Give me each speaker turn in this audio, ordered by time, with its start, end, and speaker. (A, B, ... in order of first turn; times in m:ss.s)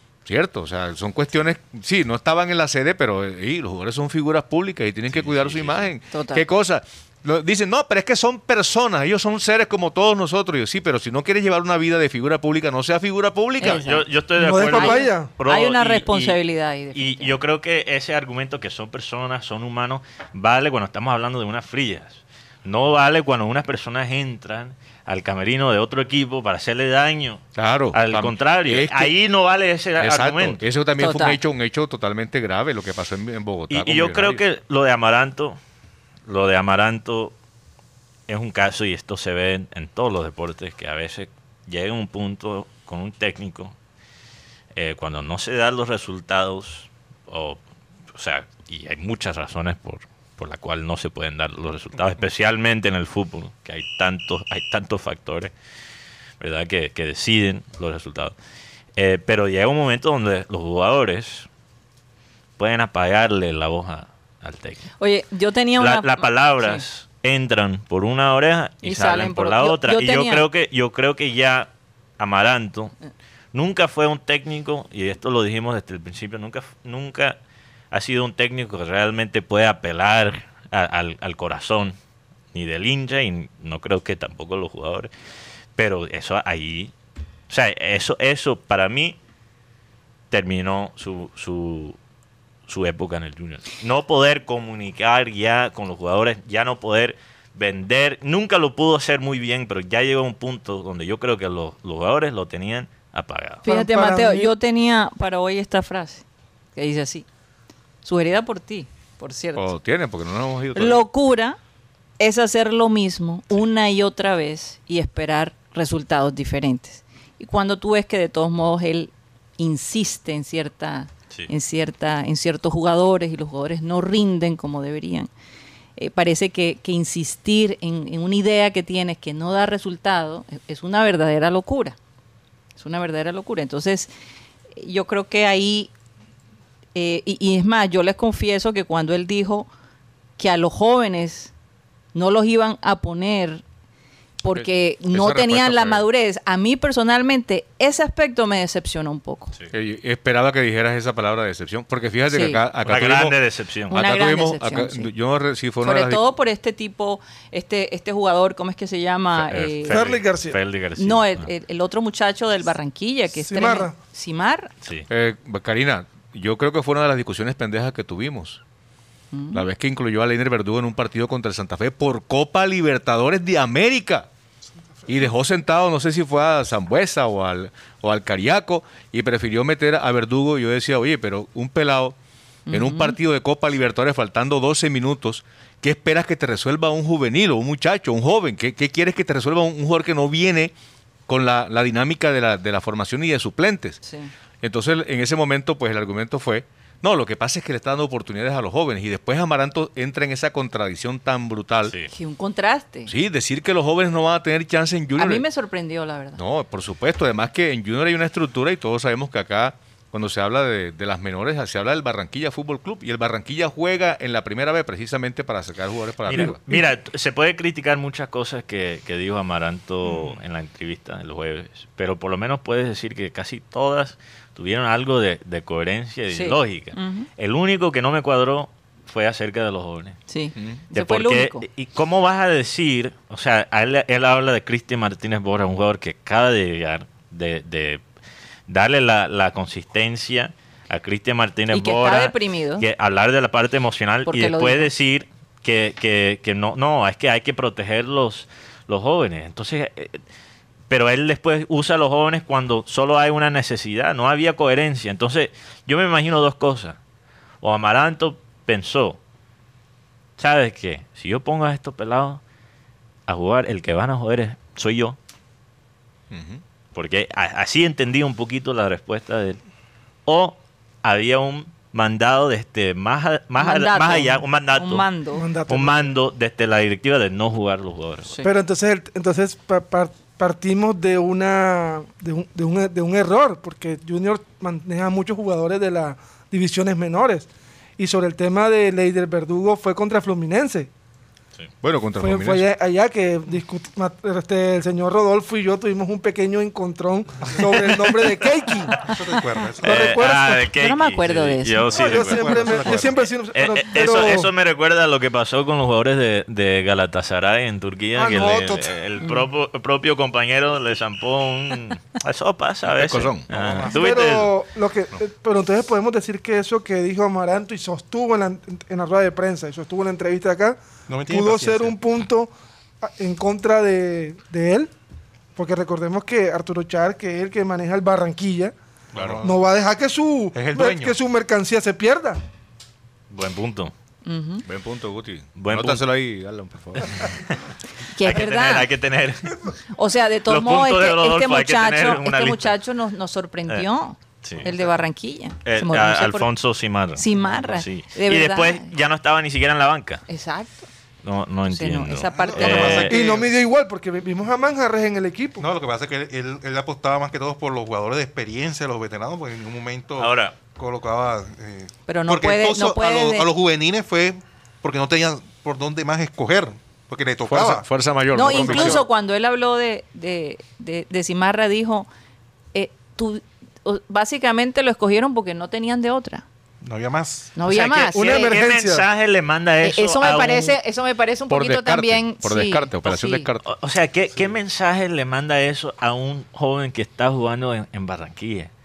0:00.2-0:13.8 A
0:05.1-0:05.9 B
0:06.1-0:06.4 C
0:13.6-0:14.0 C
0:13.6-0:16.4 B
0:14.4-0:15.3 D
0:14.7-0:17.4 C
0:16.9-0:30.6 B
0:27.5-0:29.1 A
0:30.0-0:34.4 A
0:31.0-0:31.4 C
0:33.7-0:35.6 B
0:36.3-0:37.3 B
0:38.3-0:43.7 B
0:44.7-0:47.6 B
0:48.1-0:55.5 B
0:56.4-0:58.3 B
0:59.0-1:01.5 B
1:02.6-1:04.9 B
1:05.0-1:06.8 C
1:05.8-1:12.9 B
1:08.8-1:10.4 C
1:13.5-1:17.4 B
1:17.9-1:22.0 B
1:22.5-1:25.1 B
1:25.8-1:26.9 B
1:27.5-1:29.2 B
1:30.3-1:32.0 B
1:32.7-1:43.6 B
1:43.6-1:47.2 C
1:43.6-1:44.5 D
1:48.0-1:49.7 C
1:49.5-1:51.0 A
1:50.7-1:51.6 C
1:52.2-2:05.3 C
2:06.0-2:12.0 C
2:12.8-2:14.1 C
2:14.8-2:15.9 C
2:16.9-2:19.7 C
2:20.4-2:21.5 C
2:22.1-2:23.6 C
2:24.4-2:29.5 C
2:24.6-2:26.0 A
2:29.7-2:33.4 A
2:32.3-2:32.6 C
2:32.8-2:33.9 B
2:33.9-2:36.2 A
2:33.9-2:35.1 C
2:35.8-2:40.0 C
2:39.3-2:41.5 B
2:39.9-2:40.6 D
2:41.0-2:44.7 C
2:43.4-2:43.9 D
2:45.1-2:48.6 A
2:49.3-2:49.6 C
2:49.5-2:54.3 A
2:55.1-3:02.2 A
3:02.7-3:03.2 C
3:02.7-3:10.7 A
3:11.3-3:14.0 A
3:14.0-3:14.3 C
3:14.6-3:22.0 A
3:22.1-3:23.1 C
3:23.1-3:25.4 A
3:25.2-3:26.4 C
3:26.4-3:36.6 A
3:36.2-3:50.2 B
3:46.3-3:47.3 C
3:50.3-3:51.6 C
3:50.6-3:50.8 A
3:50.9-3:58.0 B
3:58.7-4:10.2 B
4:01.7-4:02.8 C
4:04.2-4:04.9 C
4:10.9-4:17.0 B
4:17.6-4:19.2 B
4:20.4-4:22.4 B
4:23.3-4:25.2 B
4:26.3-4:26.6 A
4:26.9-4:29.6 B
4:30.2-4:35.1 B
4:33.6-4:35.4 C
4:35.3-4:36.1 D
4:35.7-4:38.4 B
4:38.4-4:50.9 D
4:51.8-4:52.7 A
4:52.2-4:59.1 D
4:59.0-5:00.2 E
4:59.8-5:00.7 D
4:59.8-5:14.5 B
5:00.7-5:01.9 C
5:01.9-5:03.2 E
5:01.9-5:04.5 D
5:08.1-5:08.9 D
5:12.9-5:13.5 A
5:13.5-5:14.1 E
5:13.9-5:24.9 D
5:21.1-5:22.0 E
5:25.6-5:28.7 D
5:29.1-5:29.6 E
5:29.2-5:29.4 A
5:29.4-5:32.4 D
5:30.5-5:31.2 E
5:33.3-5:33.9 B
5:34.2-5:34.6 C
5:34.6-5:37.4 A
5:35.6-5:36.0 B
5:37.0-5:37.6 B
5:38.1-5:38.9 C
5:38.2-5:39.7 B
5:39.9-5:46.5 C
5:40.5-5:42.7 B
5:44.4-5:44.7 B
5:45.6-5:50.2 B
5:47.1-5:48.9 C
5:50.3-5:50.9 C
5:51.2-5:53.2 B
5:51.7-5:53.1 C
5:52.3-5:53.5 E
5:53.1-5:55.6 D
5:55.6-6:07.8 E
6:00.2-6:00.6 B
6:02.1-6:03.5 C
6:07.5-6:09.0 A
6:08.3-6:12.1 C
6:08.5-6:09.0 E
6:12.7-6:16.4 C
6:16.8-6:17.5 E
6:17.6-6:18.5 C
6:17.6-6:20.8 B
6:18.1-6:19.0 D
6:19.8-6:23.5 C
6:21.5-6:23.7 A
6:23.6-6:28.7 B